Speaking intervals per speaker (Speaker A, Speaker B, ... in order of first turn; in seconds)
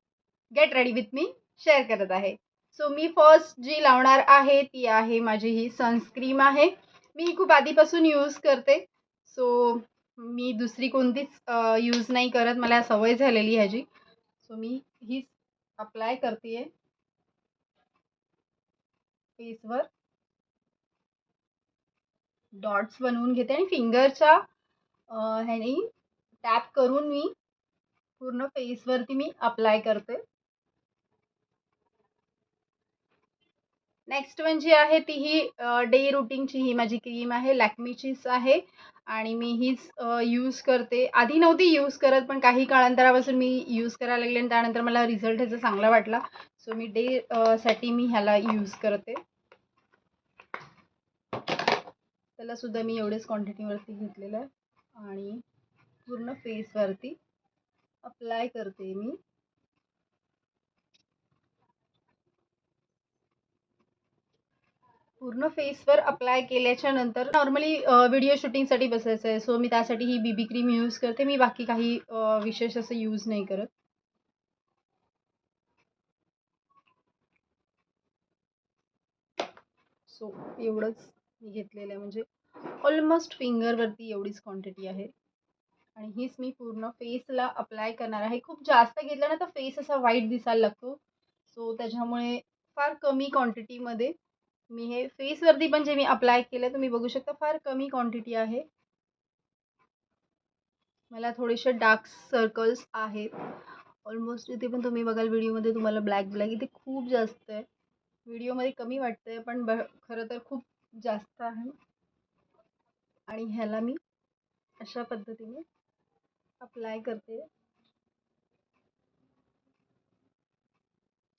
Speaker A: 0.5-13.8, 14.4-16.7, 19.4-19.9, 22.6-24.4, 25.1-25.9, 26.4-27.3, 28.2-30.2, 34.1-49.2, 52.4-55.4, 56.1-57.2, 58.0-59.2, 65.2-73.7, 80.1-85.1, 86.0-94.1, 94.7-98.6, 101.1-103.3, 104.0-107.7, 108.2-111.8, 113.3-114.0, 114.8-115.6, 116.6-117.5